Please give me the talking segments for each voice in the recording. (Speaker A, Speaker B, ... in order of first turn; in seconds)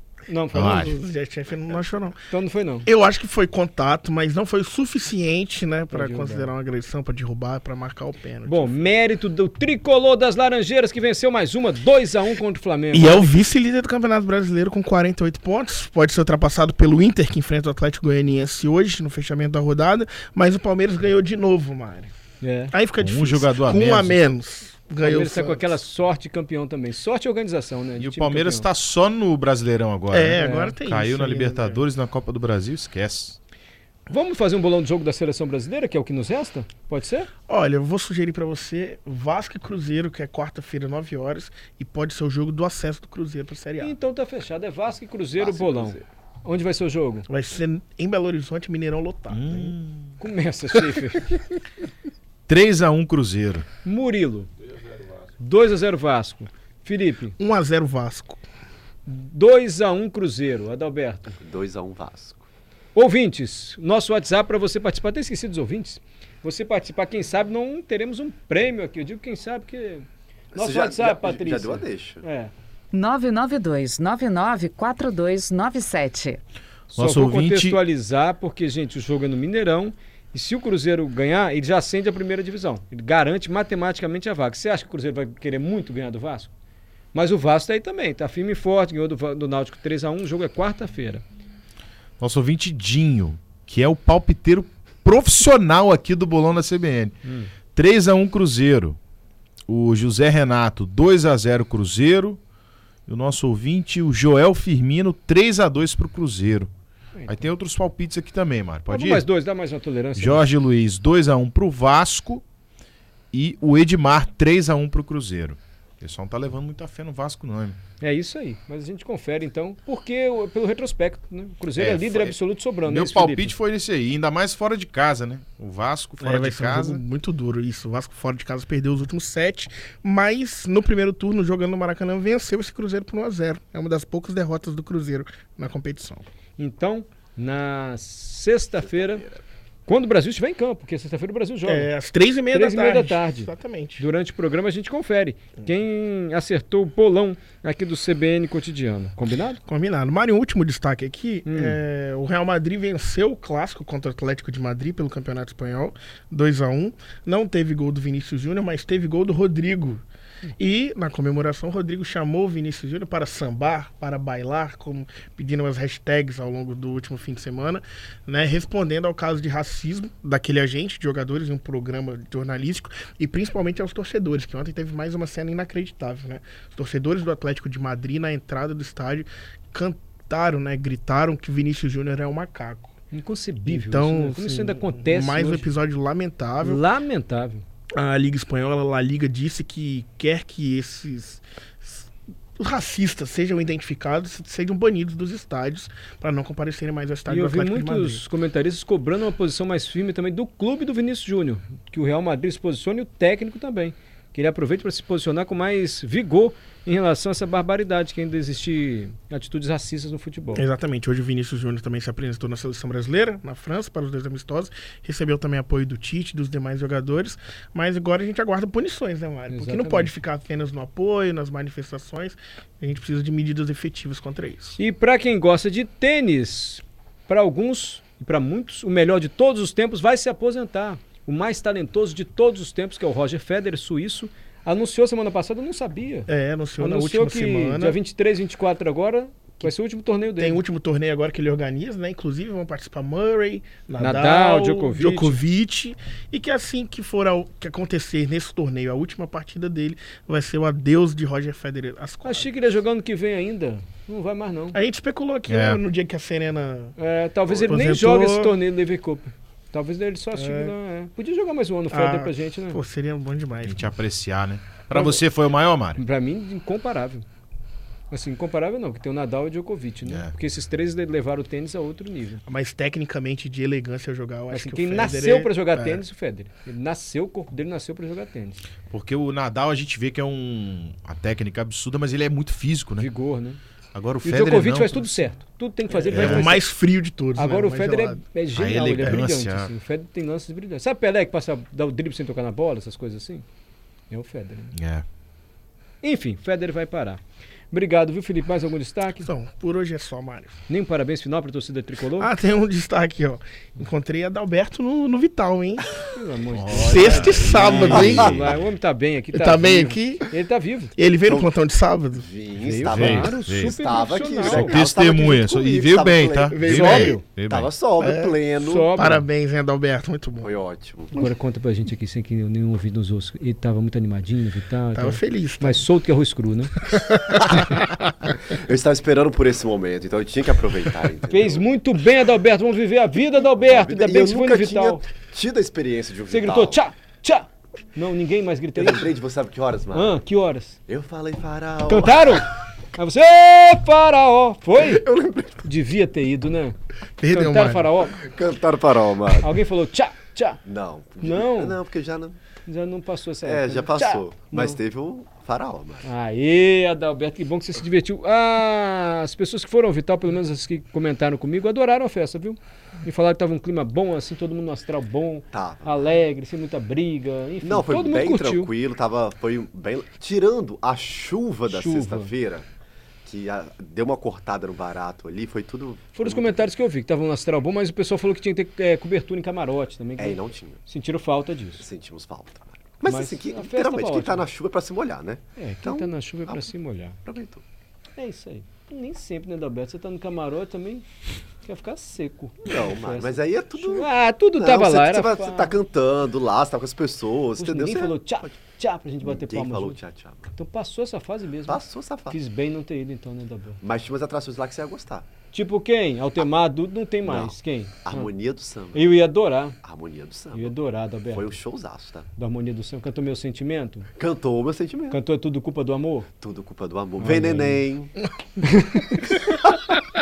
Speaker A: 0.3-0.9, 2.3-2.9, 5.9-6.5, 8.4-13.3, 22.4-22.7, 25.0-28.7, 30.4-30.8, 34.1-37.3, 43.8-47.3, 50.2-51.4, 53.8-54.5, 55.4-57.4, 59.1-61.3, 63.0-72.5, 76.9-86.5, 87.1-91.2, 97.2-97.5, 107.2-107.5, 108.9-110.5, 118.0-123.5, 136.6-139.3, 139.9-141.9, 142.5-149.6, 151.5-151.8, 183.1-185.7, 186.6-187.6, 197.3-210.7, 219.5-220.1, 224.8-240.6, 244.0-245.4, 252.2-254.8, 257.0-262.8, 266.0-267.2, 268.1-272.4, 274.5-278.6, 283.0-283.6, 284.2-286.6, 287.4-293.4, 294.1-294.7, 296.0-299.3, 300.7-302.3, 306.1-310.9, 312.6-314.8, 316.7-317.2, 318.6-319.3, 321.1-326.7, 331.3-335.0, 336.3-339.1, 339.9-340.8, 341.9-345.0, 345.6-346.8, 347.3-348.2, 349.3-350.6, 351.2-351.8, 352.7-354.8, 356.0-368.7, 371.7-372.3, 376.1-381.9, 383.0-384.4, 385.6-387.2, 388.2-391.1, 391.6-395.7, 397.6-400.0, 400.5-403.8, 405.5-408.3, 408.9-409.8, 410.5-411.5, 412.4-414.1, 415.1-416.3, 417.2-417.8, 418.6-419.3
Speaker B: 0.5-2.2, 2.9-8.9, 12.9-22.1, 22.7-25.8, 30.1-31.8, 37.5-44.0, 47.3-49.7, 57.4-58.4, 126.2-136.3, 141.7-144.1, 149.7-160.0, 160.6-182.9, 183.6-186.8, 188.0-198.2, 210.5-224.8, 236.3-238.0, 240.4-252.5, 254.7-257.0, 257.7-258.6, 260.3-260.8, 261.9-263.9, 272.5-276.0, 285.9-288.2, 299.2-300.6, 302.2-305.9, 306.7-308.5, 309.3-310.3, 311.0-312.3, 316.5-317.2, 318.0-318.4, 318.9-320.5, 324.9-325.9, 326.9-328.3, 347.2-347.9
Speaker C: 0.5-0.9, 23.0-24.2, 28.0-33.4, 49.3-50.1, 52.5-53.7, 76.9-77.8, 92.2-97.2, 97.7-99.0, 99.7-102.4, 103.1-106.7, 107.3-109.2, 110.2-112.4, 113.3-117.8, 121.8-127.0, 255.5-255.8, 263.6-266.0, 270.0-270.3, 278.9-283.1, 283.9-285.3, 286.1-286.6, 288.5-289.7, 294.7-295.1, 306.5-308.5, 312.9-313.7, 314.4-317.7
Speaker D: 45.4-46.0, 61.4-62.5, 70.5-72.2, 257.5-257.8, 306.9-308.5, 311.2-311.5, 312.1-316.8, 317.3-319.0, 320.4-321.2, 327.4-327.7, 328.5-331.7, 333.6-336.8, 338.8-340.2, 340.9-342.4, 344.8-345.6, 348.1-349.6, 350.6-352.4, 353.4-356.1, 365.5-366.1, 367.6-372.7, 373.2-376.7, 380.2-380.8, 381.8-386.7, 387.2-387.6, 392.6-398.6, 399.2-400.5, 401.7-402.4, 403.8-405.3, 407.2-409.1, 409.8-410.8, 411.3-412.3, 414.2-415.2, 416.4-418.1, 419.5-419.8
Speaker E: 72.9-76.4